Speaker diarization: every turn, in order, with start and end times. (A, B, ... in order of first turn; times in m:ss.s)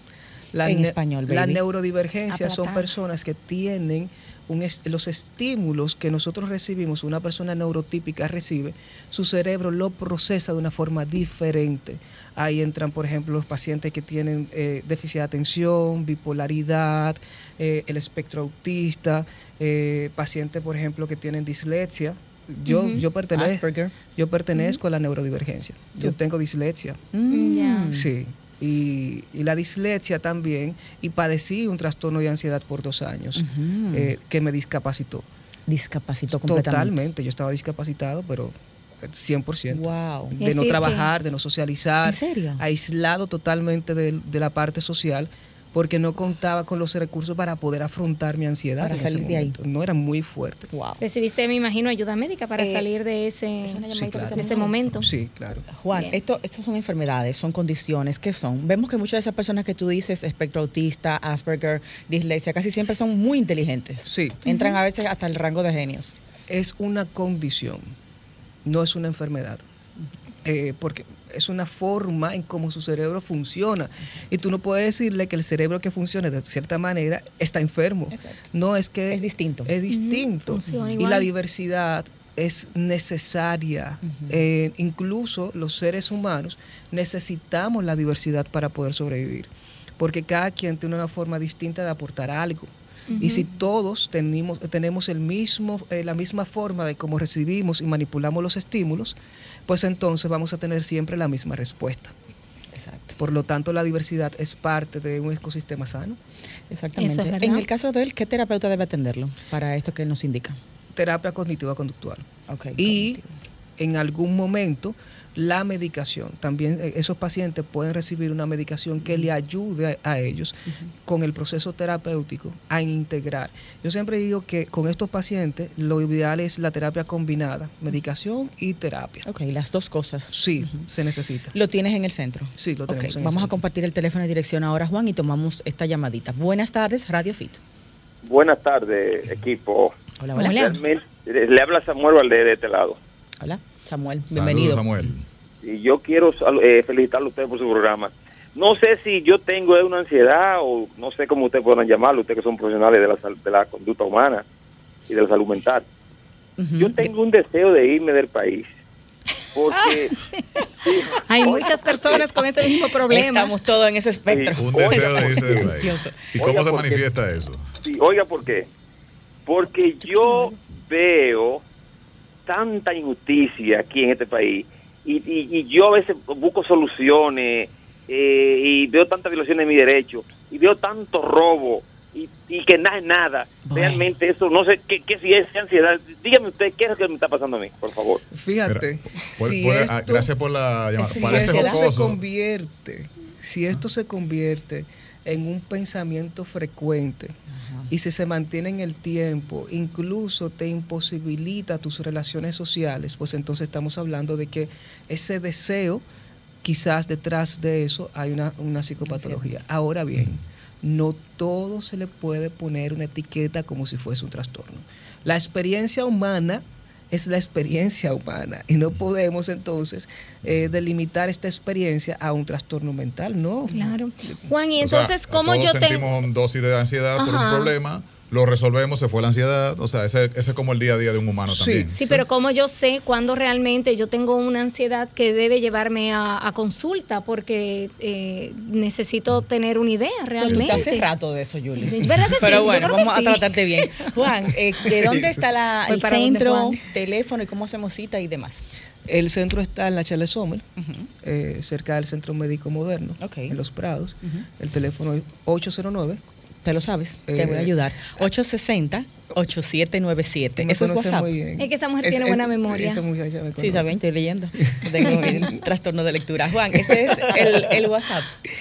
0:00.5-0:27.0 A
0:00.6-0:01.6 B
0:02.3-0:02.9 C
0:22.7-0:23.1 C
0:23.3-0:23.9 B
0:24.6-0:24.8 C
0:27.1-0:28.1 B
0:27.3-0:27.9 C
0:27.9-0:35.2 A
0:33.4-0:34.1 B
0:35.7-0:37.0 B
0:36.3-0:50.7 A
0:39.7-0:40.4 B
0:40.4-0:41.1 C
0:42.0-0:42.6 B
0:48.8-0:49.6 B
0:50.7-0:51.0 B
0:51.0-0:53.8 C
0:52.6-0:52.9 B
0:53.6-0:55.0 B
0:53.9-0:54.5 A
0:54.4-0:55.1 C
0:55.0-0:55.7 A
0:55.7-1:06.1 B
1:04.1-1:04.4 A
1:04.5-1:04.7 C
1:06.5-1:07.9 A
1:08.6-1:09.6 A
1:10.4-1:39.2 A
1:18.1-1:18.4 B
1:19.1-1:19.7 B
1:19.9-1:21.3 C
1:24.0-1:24.4 B
1:33.1-1:33.5 C
1:39.7-1:42.1 A
1:42.7-1:43.2 B
1:43.2-1:46.2 A
1:46.7-1:50.6 B
1:47.0-1:47.6 C
1:50.9-1:53.2 A
1:52.5-1:53.3 B
1:53.8-2:09.2 A
1:59.0-1:59.3 B
2:09.2-2:10.9 B
2:10.3-2:11.5 A
2:11.5-2:17.6 B
2:12.6-2:13.6 A
2:18.2-2:20.0 D
2:20.2-2:20.6 B
2:20.3-2:20.8 C
2:20.5-2:23.0 D
2:23.4-2:24.9 B
2:24.3-2:25.2 E
2:25.6-2:34.4 D
2:35.1-2:35.9 D
2:36.6-2:37.1 B
2:36.8-2:38.7 D
2:39.6-2:40.1 D
2:40.8-2:42.3 D
2:41.3-2:43.6 C
2:43.1-2:46.2 B
2:44.3-2:45.8 D
2:44.6-2:47.7 E
2:46.4-2:47.1 D
2:47.8-2:48.7 D
2:49.5-2:51.6 D
2:50.1-2:50.5 B
2:52.5-3:08.2 D
3:03.7-3:04.1 B
3:08.3-3:10.3 A
3:08.6-3:12.2 E
3:11.0-3:17.4 A
3:11.0-3:11.9 B
3:17.5-3:17.9 B
3:17.9-3:26.0 A
3:26.6-3:44.4 A
3:29.1-3:29.6 B
3:43.7-3:46.1 C
3:44.8-3:51.9 E
3:47.2-3:47.7 C
3:51.5-3:52.2 A
3:51.9-4:01.1 C
4:00.4-4:08.6 B
4:00.5-4:00.9 E
4:01.8-4:04.1 C
4:04.9-4:05.4 A
4:05.9-4:06.8 C
4:09.1-4:10.7 A
4:10.8-4:11.1 B
4:11.2-4:16.2 A
4:13.2-4:13.6 B
4:16.6-4:21.3 B
4:17.3-4:17.7 A
4:20.6-4:24.0 A
4:21.6-4:23.0 C
4:23.6-4:28.3 B
4:24.7-4:25.6 A
4:26.8-4:27.7 A